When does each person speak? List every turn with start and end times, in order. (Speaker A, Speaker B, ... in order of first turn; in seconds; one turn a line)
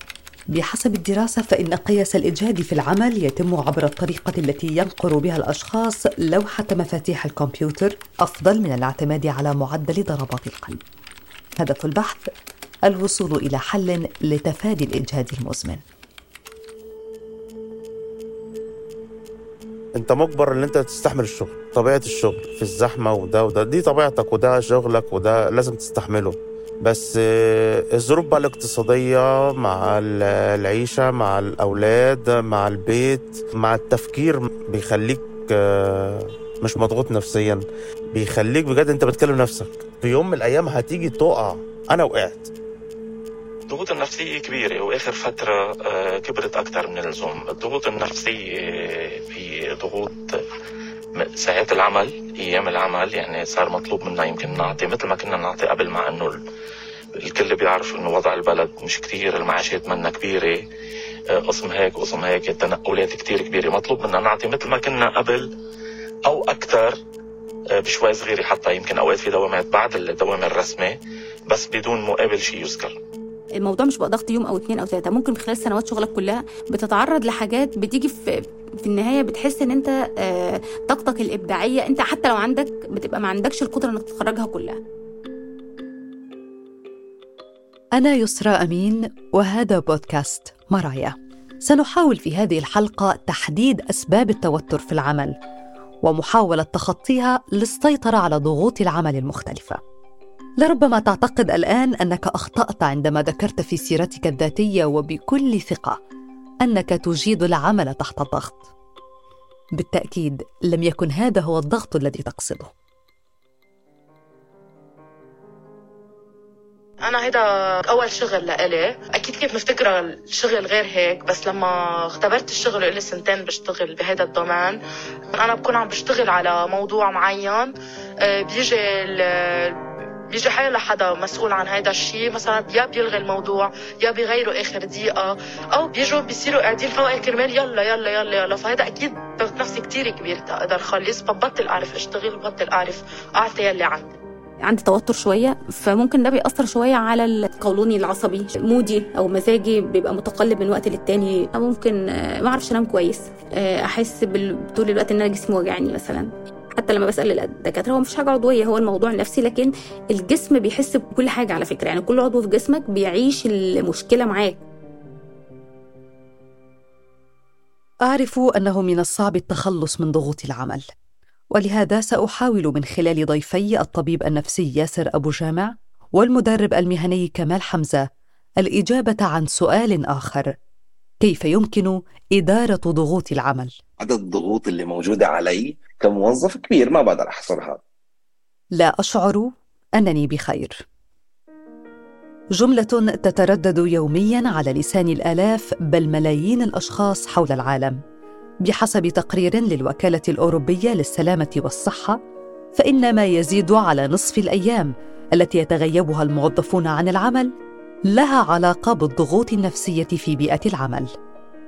Speaker A: 0.5-10.8
Speaker A: 11.6-12.3
Speaker A: 12.9-15.8
Speaker B: 19.9-42.5
Speaker C: 43.7-50.2
Speaker C: 51.2-56.4
Speaker C: 57.2-60.6
Speaker C: 61.4-65.5
Speaker C: 66.3-67.0
Speaker C: 67.8-73.0
Speaker D: 73.6-78.2
Speaker D: 78.8-84.8
Speaker A: 88.0-95.3
Speaker A: 96.0-99.8
Speaker A: 100.6-106.0
Speaker A: 106.6-108.7
Speaker A: 109.7-112.7
Speaker E: 117.1-117.4
Speaker E: 117.9-124.8
Speaker E: 125.4-127.7
Speaker E: 128.3-129.7
Speaker E: 130.3-143.0
Speaker E: 143.5-144.0
Speaker D: 144.6-164.6
Speaker A: 168.1-170.8
Speaker A: 171.5-178.0
Speaker A: 178.6-180.5
Speaker A: 181.2-183.7
Speaker F: 184.0-187.8
Speaker A: 188.7-190.8
Speaker A: 192.6-198.0
Speaker A: 198.6-202.2
Speaker A: 202.7-207.5
Speaker A: 208.1-211.1